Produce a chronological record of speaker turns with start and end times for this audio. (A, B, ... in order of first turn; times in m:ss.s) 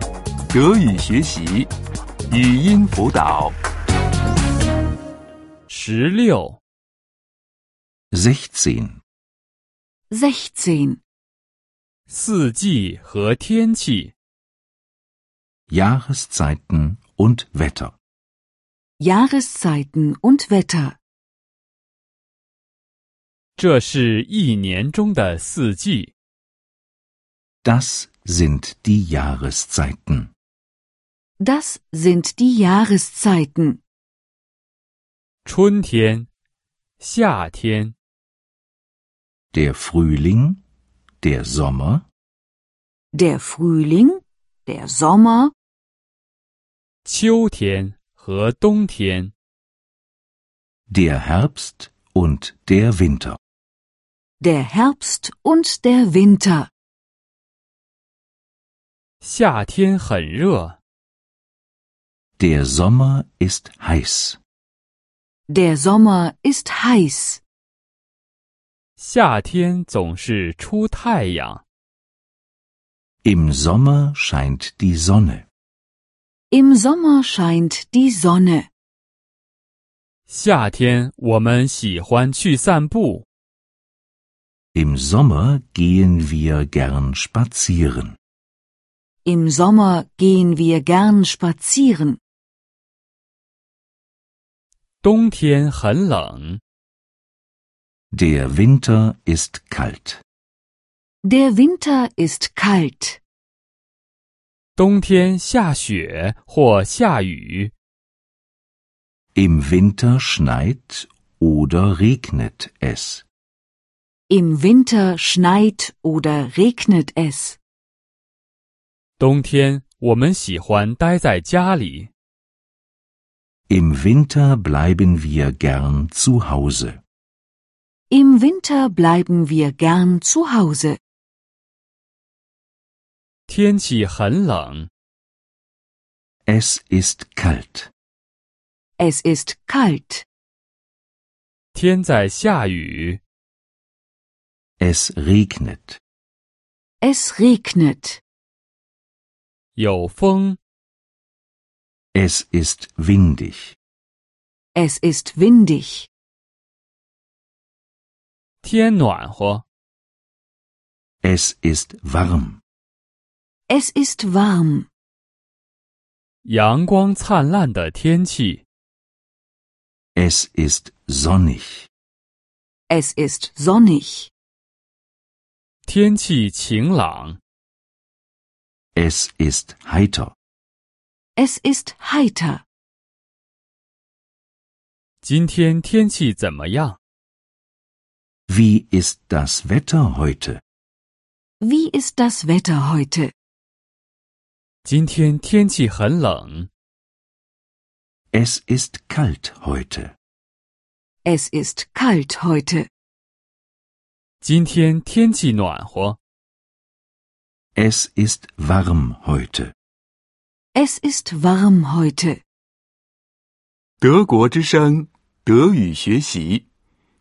0:00.5-0:01.7 A
0:02.3-0:03.6 A
0:05.7-0:06.6 B
0:08.1-0:09.0 C
0:10.1-0:11.0 D
0:12.1-0:14.1 B
0:15.7-0:18.0 C
0:19.0-0:21.0 D
0:23.6-0:26.1 B
0:27.6-0:30.3 C
0:31.4-0:33.8 D
0:35.4-0:36.3 B
0:37.0-0:37.9 B
0:39.5-0:40.6 C
0:41.2-0:42.0 C
0:43.1-0:45.5 D
0:47.0-0:49.3 B
0:50.9-0:53.4 C
0:54.4-0:56.7 D
0:59.2-1:00.8 B
1:02.4-1:04.4 C
1:05.5-1:07.4 D
1:09.0-1:11.6 B
1:13.2-1:15.4 C
1:16.5-1:18.7 D
1:20.3-1:23.2 B
1:24.7-1:28.2 C
1:29.2-1:32.2 D
1:35.0-1:36.6 B
1:38.1-1:40.2 C
1:41.2-1:43.2 D
1:44.8-1:47.7 B
1:49.3-1:53.2 C
1:54.3-1:57.6 D
1:59.2-2:02.1 B
2:03.7-2:07.0 C
2:08.1-2:11.0 D
2:13.5-2:14.9 B
2:16.5-2:17.9 C
2:19.0-2:20.2 D
2:21.7-2:23.2 B
2:24.8-2:26.0 C
2:27.0-2:28.2 D
2:29.8-2:30.6 B
2:32.1-2:33.8 C
2:34.7-2:36.1 D
2:38.6-2:39.6 B
2:41.2-2:42.6 C
2:43.7-2:44.9 D
2:46.4-2:48.6 B
2:50.2-2:51.9 C
2:52.9-2:54.3 D
2:55.8-2:57.4 B
2:59.0-3:00.3 C
3:01.4-3:02.6 D
3:05.2-3:07.0 B
3:08.5-3:10.6 C
3:11.6-3:13.3 D
3:14.8-3:16.7 B
3:18.3-3:20.1 C
3:21.2-3:22.9 D
3:24.4-3:26.2 B
3:27.8-3:29.7 C
3:30.7-3:32.4 D
3:34.0-3:36.6 A